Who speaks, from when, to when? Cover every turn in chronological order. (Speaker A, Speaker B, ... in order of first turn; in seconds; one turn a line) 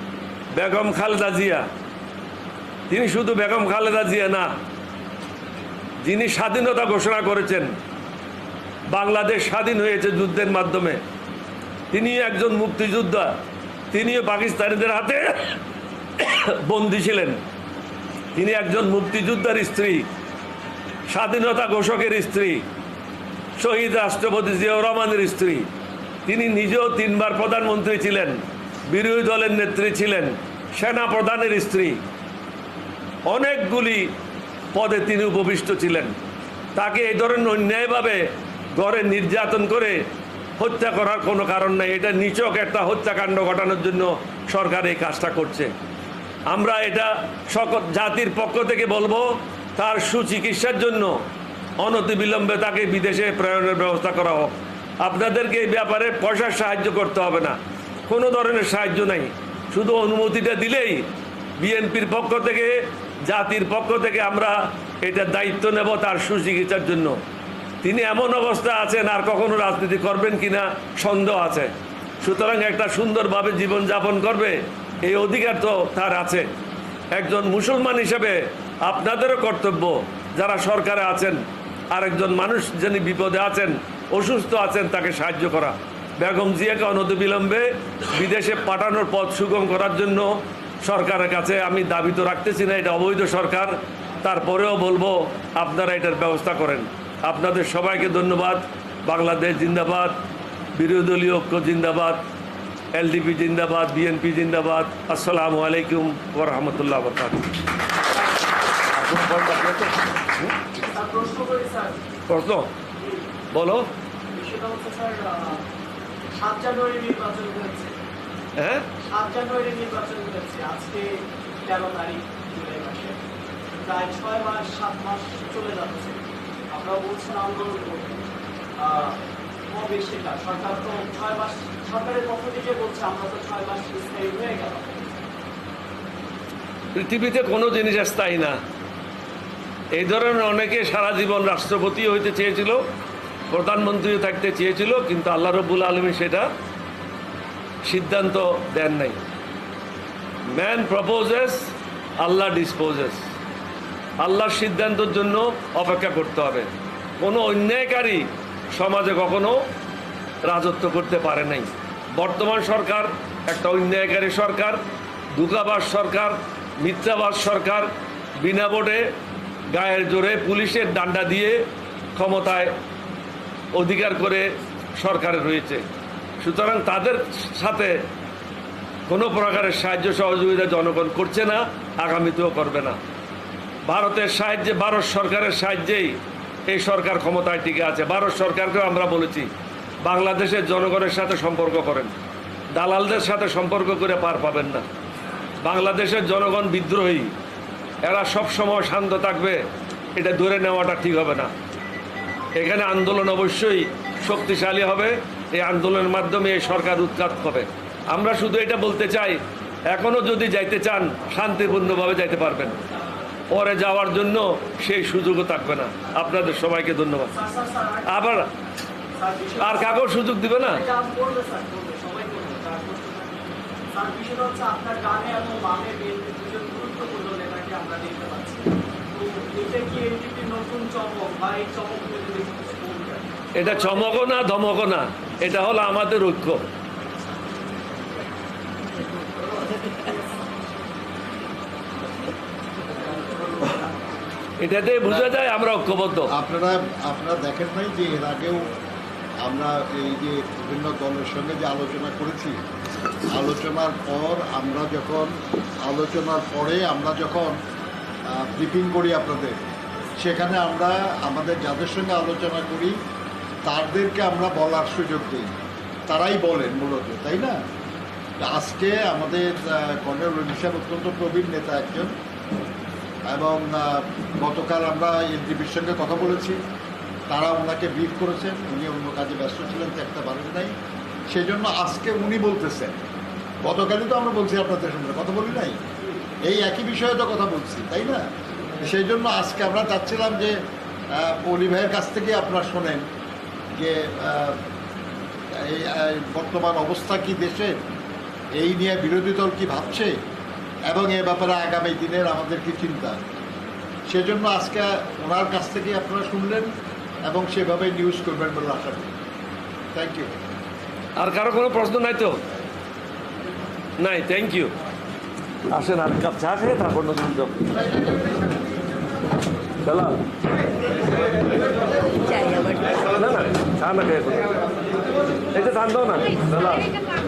Speaker A: 0.6-1.6
Speaker A: 2.9-4.5
Speaker A: 6.0-7.7
Speaker A: 8.9-11.0
Speaker A: 11.9-13.3
Speaker A: 13.9-15.6
Speaker A: 16.2-17.4
Speaker A: 18.4-20.1
Speaker A: 21.1-22.6
Speaker A: 23.6-25.6
Speaker A: 26.3-28.4
Speaker A: 28.9-32.0
Speaker A: 33.3-34.0
Speaker A: 34.8-36.1
Speaker A: 36.8-38.2
Speaker A: 38.8-40.0
Speaker A: 40.6-45.7
Speaker A: 46.5-51.1
Speaker A: 51.8-61.0
Speaker A: 61.6-62.7
Speaker A: 63.3-67.2
Speaker A: 67.8-76.5
Speaker A: 77.2-81.4
Speaker A: 81.9-90.3
Speaker A: 90.8-100.1
Speaker A: 100.8-102.2
Speaker A: 102.9-107.4
Speaker A: 108.9-110.5
Speaker B: 110.8-112.0
Speaker A: 112.3-112.7
Speaker A: 113.5-113.9
Speaker B: 114.3-115.6
Speaker B: 116.4-118.0
Speaker A: 118.6-118.9
Speaker B: 119.1-123.2
Speaker B: 123.8-126.2
Speaker B: 126.7-128.2
Speaker B: 128.8-129.2
Speaker B: 129.7-135.0
Speaker A: 136.9-138.6
Speaker A: 140.0-142.8
Speaker A: 143.5-146.5
Speaker A: 147.8-149.2
Speaker A: 150.5-153.2
Speaker A: 154.2-156.7
Speaker A: 157.2-159.6
Speaker A: 160.4-164.8
Speaker A: 165.3-167.9
Speaker A: 168.4-169.0
Speaker A: 169.7-171.6
Speaker A: 172.2-172.7
Speaker A: 173.8-174.5
Speaker A: 175.0-175.8
Speaker A: 176.4-177.9
Speaker A: 179.1-183.0
Speaker A: 183.9-186.2
Speaker A: 186.7-189.5
Speaker A: 190.1-192.1
Speaker A: 192.8-194.8
Speaker A: 195.6-197.3
Speaker A: 198.1-199.6
Speaker A: 200.2-201.5
Speaker A: 202.6-209.4
Speaker A: 209.9-212.8
Speaker A: 213.5-217.3
Speaker B: 217.3-218.3
Speaker A: 218.1-218.5
Speaker B: 219.2-234.1
Speaker A: 219.6-220.8
Speaker A: 233.6-236.6
Speaker A: 244.6-246.3
Speaker C: 246.3-248.7
Speaker C: 249.4-252.6
Speaker C: 253.3-257.6
Speaker C: 258.3-259.6
Speaker C: 260.2-263.0
Speaker C: 263.6-265.5
Speaker C: 266.1-267.6
Speaker C: 268.4-272.1
Speaker C: 273.3-276.6
Speaker C: 277.3-280.8
Speaker C: 281.3-283.0
Speaker C: 283.6-285.8
Speaker C: 286.4-288.3
Speaker C: 288.8-293.1
Speaker C: 293.8-294.6
Speaker C: 295.6-297.8
Speaker C: 298.6-300.1
Speaker C: 300.9-303.2
Speaker C: 304.1-306.7
Speaker C: 307.3-309.1
Speaker C: 309.9-310.3
Speaker A: 311.2-312.3
Speaker A: 314.0-314.7
Speaker A: 315.7-317.8
Speaker A: 319.8-320.2
Speaker A: 323.1-324.6
Speaker A: 325.5-327.0